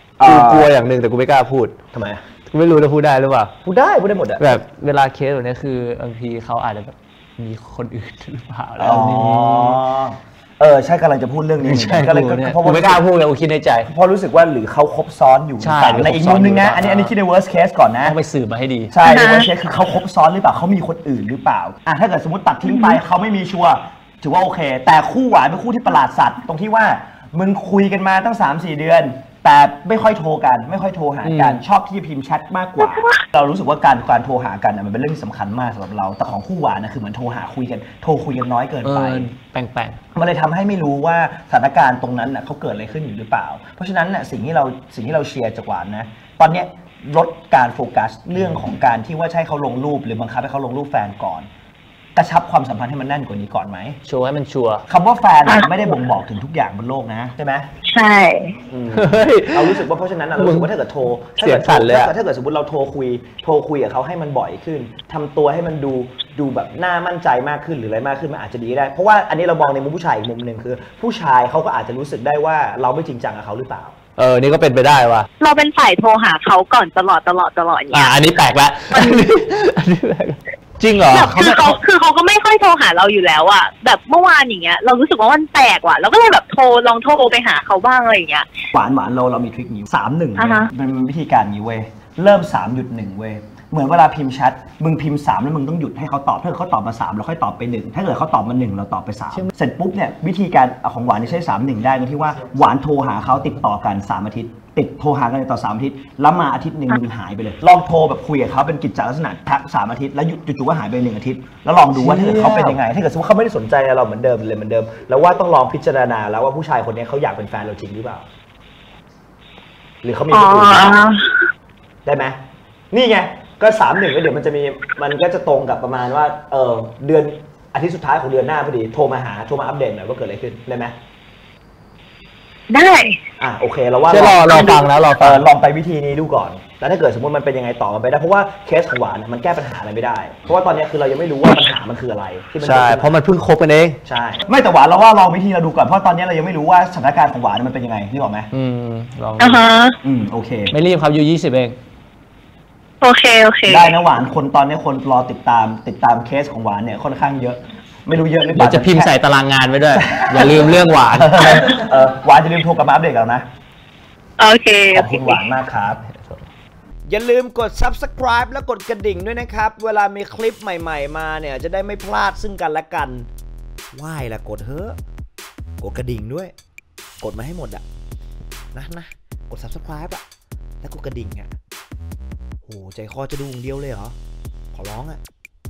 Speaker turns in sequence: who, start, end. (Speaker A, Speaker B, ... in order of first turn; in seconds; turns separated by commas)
Speaker A: 0.2-0.7, Speaker B: 0.2-1.8, Speaker A: 1.9-2.2, Speaker B: 2.5-3.5, Speaker A: 3.6-4.6, Speaker B: 4.4-9.8, Speaker A: 8.8-13.0, Speaker B: 11.6-13.9, Speaker A: 13.8-18.2, Speaker B: 15.6-17.1, Speaker B: 18.0-18.9, Speaker A: 18.9-39.3, Speaker C: 19.0-19.5, Speaker C: 22.6-23.0, Speaker B: 31.2-31.6, Speaker C: 32.8-33.2, Speaker B: 38.8-40.0, Speaker A: 40.1-51.5, Speaker A: 52.1-54.0, Speaker B: 54.0-54.9, Speaker A: 54.9-57.7, Speaker C: 55.5-56.0, Speaker C: 57.9-58.6, Speaker A: 58.7-74.0, Speaker B: 58.9-59.8, Speaker B: 60.4-60.7, Speaker B: 61.4-62.1, Speaker B: 74.2-75.3, Speaker C: 75.4-79.2, Speaker B: 77.9-81.8, Speaker C: 81.1-88.5, Speaker A: 88.7-118.2, Speaker C: 90.4-90.7, Speaker B: 111.9-112.8, Speaker A: 120.0-121.0, Speaker C: 120.3-121.5, Speaker A: 122.0-122.4, Speaker A: 122.9-130.9, Speaker C: 132.7-133.2, Speaker A: 133.4-143.1, Speaker B: 134.1-135.4, Speaker C: 134.5-134.8, Speaker B: 142.6-144.0, Speaker A: 144.0-148.5, Speaker B: 148.5-149.6, Speaker C: 149.4-150.0, Speaker A: 150.0-150.7, Speaker B: 150.7-151.8, Speaker C: 153.0-153.9, Speaker A: 153.7-159.1, Speaker B: 158.5-161.8, Speaker A: 159.9-163.4, Speaker C: 164.4-165.4, Speaker A: 164.9-166.0, Speaker B: 166.1-166.4, Speaker A: 167.1-173.3, Speaker A: 173.9-175.0, Speaker A: 175.8-176.5, Speaker A: 177.2-177.8, Speaker A: 178.7-180.2, Speaker A: 180.8-181.5, Speaker A: 182.6-184.2, Speaker A: 184.7-185.2